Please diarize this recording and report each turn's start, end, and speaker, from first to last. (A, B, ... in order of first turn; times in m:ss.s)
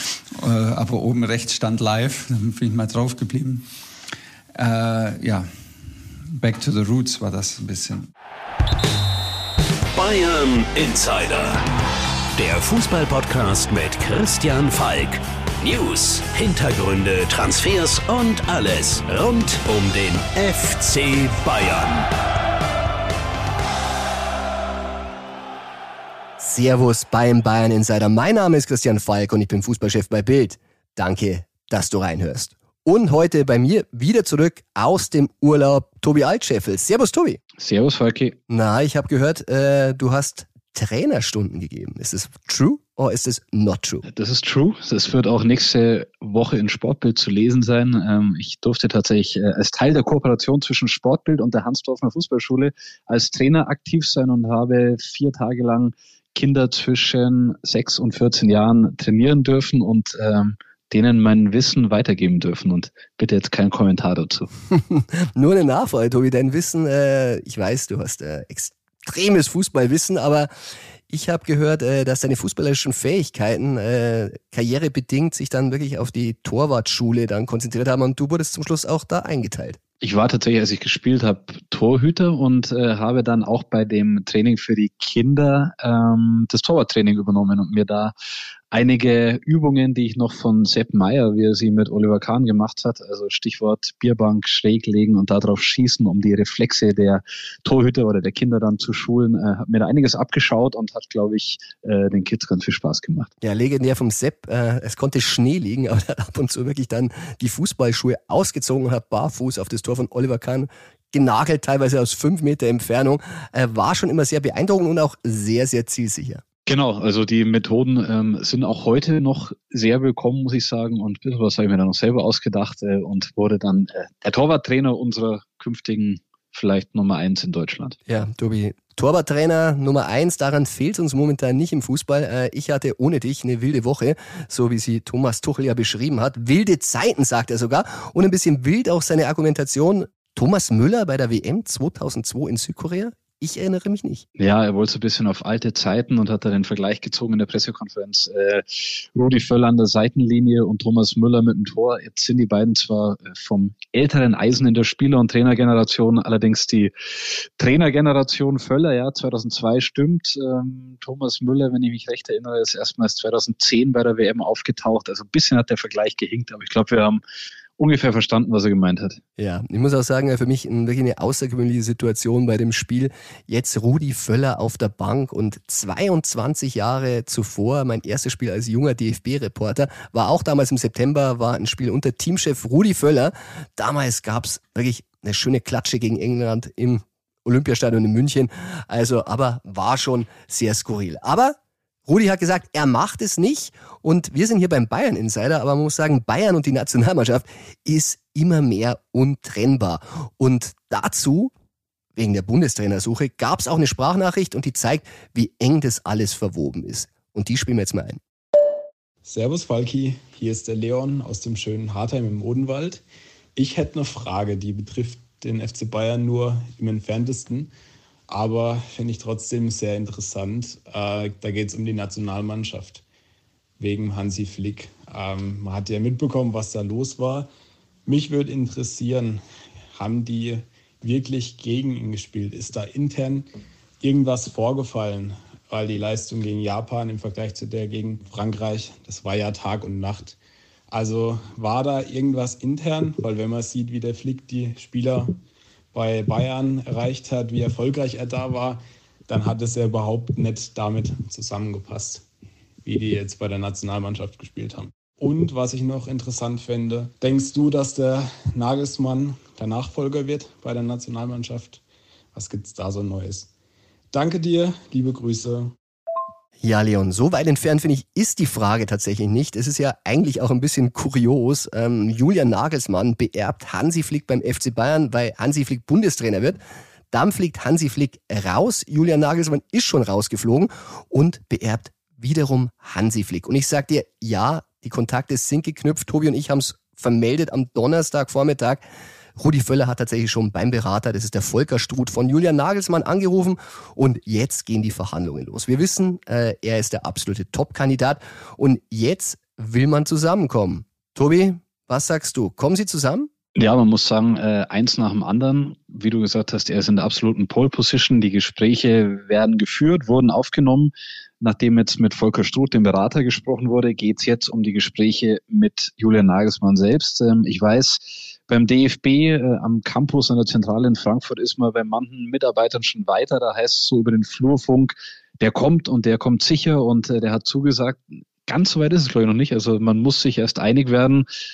0:00.3-0:03.6 A
0:04.5-0:05.5 A
0:06.3-0:08.1 A
0:09.9-0:11.6 B
0:12.3-0:22.1 B
0:26.4-0:37.4 C
0:37.6-0:38.4 D
0:38.5-0:44.0 C
0:44.1-1:04.5 D
1:04.7-1:10.5 C
1:11.1-1:19.8 C
1:20.0-1:28.1 D
1:28.7-1:43.3 D
1:43.4-1:56.4 C
1:56.7-2:08.0 D
2:08.1-2:24.2 C
2:24.4-2:36.9 D
2:37.6-2:47.2 D
2:47.8-2:49.2 D
2:49.4-3:21.5 C
3:22.1-3:28.2 C
3:29.2-3:33.0 E
3:33.6-3:37.7 E
3:38.3-3:43.0 E
3:43.8-3:47.5 E
3:48.0-3:49.4 E
3:49.9-3:53.5 E
3:54.0-4:00.4 E
4:00.9-4:05.4 E
4:05.9-4:12.2 E
4:12.8-4:21.8 E
4:22.3-4:23.5 E
4:24.1-4:25.7 E
4:26.6-4:36.6 C
4:37.1-4:48.8 C
4:49.4-5:03.3 C
5:03.6-5:31.2 D